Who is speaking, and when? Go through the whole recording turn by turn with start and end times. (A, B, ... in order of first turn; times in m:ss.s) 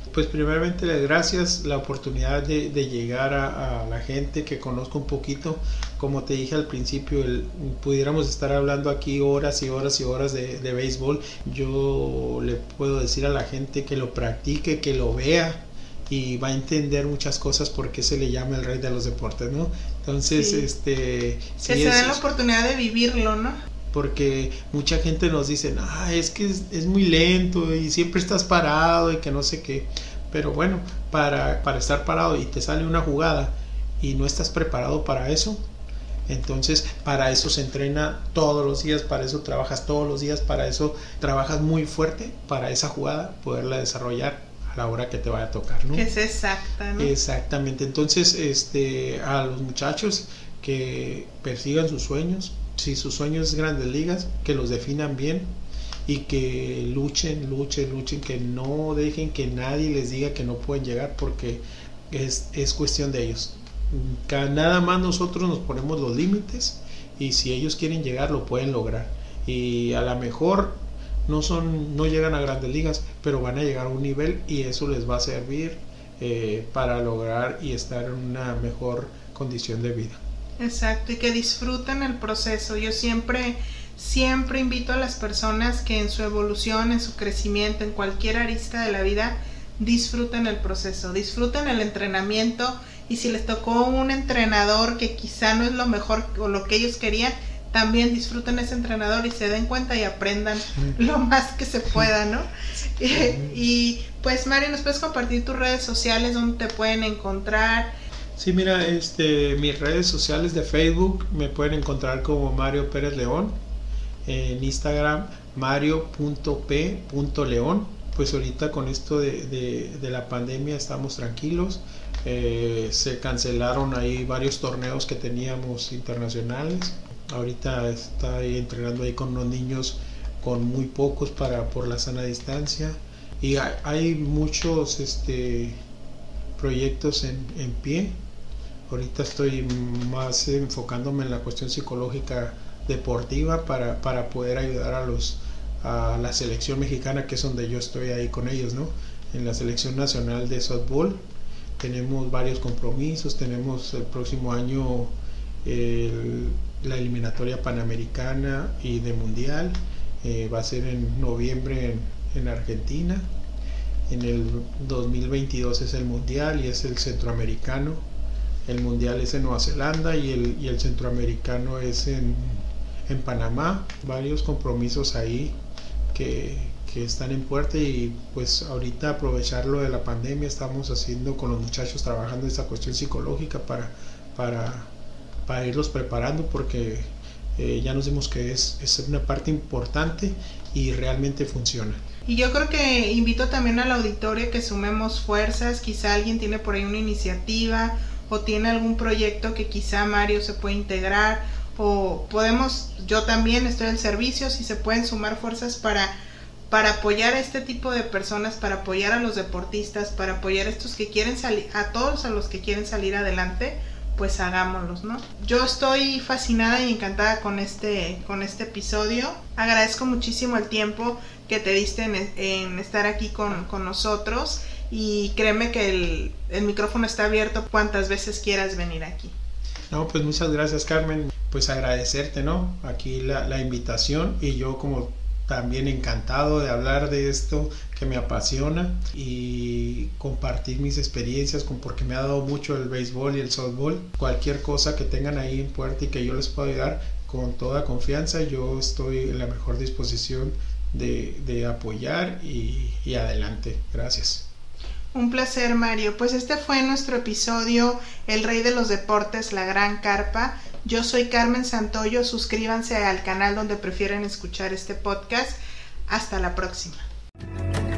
0:00.1-0:22.2 A
0:20.4-0:20.7 B
0:21.6-0:23.6 B
0:23.9-0:35.6 A
0:36.3-0:46.0 A
0:45.9-0:47.1 B
0:47.0-0:55.5 A
0:56.0-1:20.2 A
1:20.6-1:47.9 B
1:43.1-1:43.6 A
1:48.4-1:53.5 A
1:54.2-2:15.8 A
2:16.6-2:18.1 A
2:18.9-2:31.2 A
2:31.8-2:35.1 A
2:35.6-2:43.2 A
2:44.1-2:48.0 A
2:48.7-2:55.5 A
2:56.1-3:04.9 A
3:05.5-3:12.0 A
3:12.3-3:26.1 B
3:26.7-3:49.3 B
3:49.9-4:14.4 A
4:15.1-4:25.6 B
4:26.1-4:27.1 B